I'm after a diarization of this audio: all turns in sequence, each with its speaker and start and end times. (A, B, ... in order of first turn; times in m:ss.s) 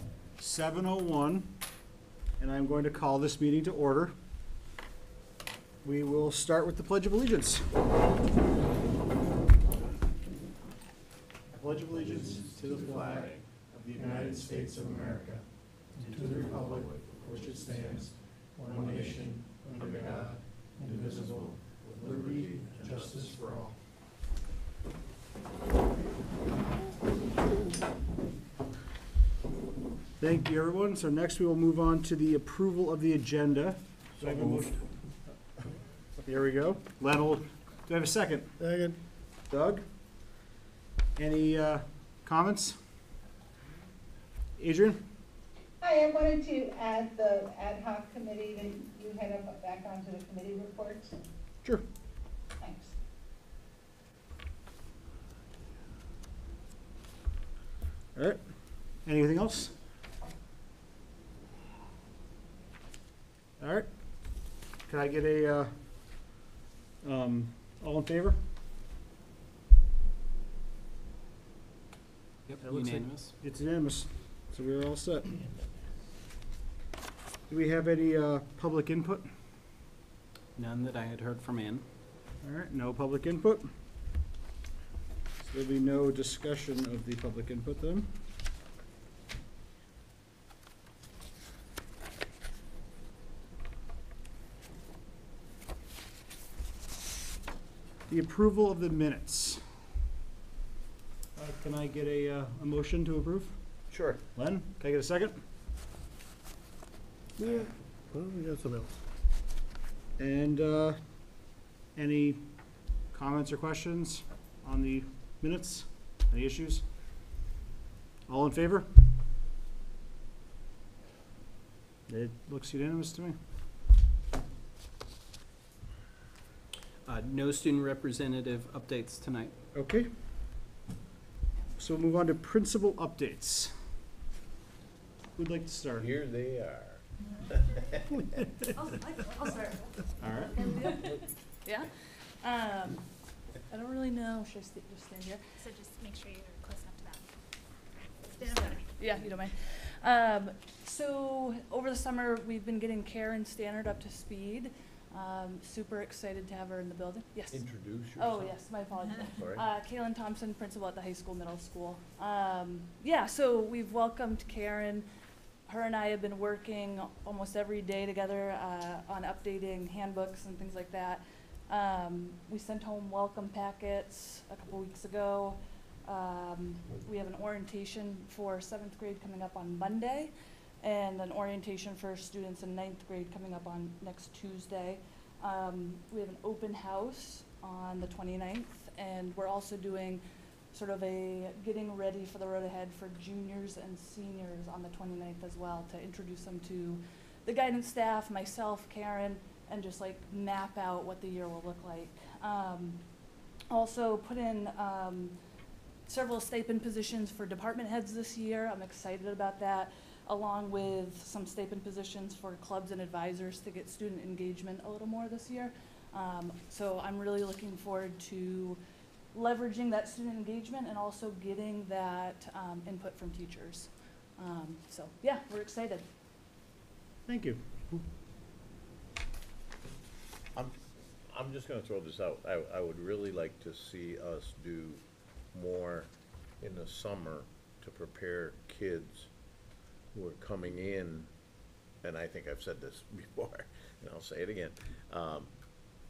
0:00.4-0:01.6 A
0:02.4-0:04.1 A
0:05.8-0:07.9 A
0:11.5-0:15.3 A
0:12.6-0:13.4 B
0:16.0-0:16.4 C
0:16.1-0:18.1 A
0:18.6-0:19.8 C
0:19.8-0:20.2 B
0:20.8-0:21.2 C
0:22.4-0:23.1 B
0:30.2-0:34.8 A
0:34.2-0:34.6 C
0:36.2-0:38.5 A
0:38.6-0:39.0 C
0:39.4-0:39.8 A
0:41.2-0:42.8 A
0:44.6-0:45.0 A
0:45.8-0:51.2 D
0:52.6-0:52.9 D
0:58.2-0:59.7 A
1:03.6-1:06.2 A
1:07.0-1:08.4 A
1:12.5-1:13.3 E
1:12.6-1:15.3 A
1:17.5-1:19.3 A
1:20.6-1:21.8 E
1:22.4-1:23.7 A
1:25.4-1:28.1 A
1:38.1-1:39.6 A
1:41.4-1:45.4 A
1:43.9-1:44.2 B
1:47.4-1:48.9 C
1:50.2-1:56.8 A
1:58.3-1:58.9 A
2:02.1-2:03.4 A
2:07.0-2:09.5 E
2:09.7-2:10.1 A
2:11.8-2:13.8 A
2:15.4-2:16.1 A
2:16.0-2:18.0 B
2:18.7-2:23.1 F
2:20.2-2:20.5 A
2:23.7-2:25.4 F
2:25.6-2:27.3 G
2:28.3-2:29.3 G
2:28.4-2:45.1 F
2:37.5-2:38.6 B
2:39.2-2:39.6 B
2:45.7-3:23.0 F
3:23.7-3:25.3 F
3:26.1-3:38.8 F
3:39.3-3:46.0 F
3:47.3-3:47.6 A
3:50.5-3:55.0 B
3:55.5-3:56.1 B
3:56.6-3:59.3 B
4:00.1-4:01.3 B
4:02.0-4:05.5 B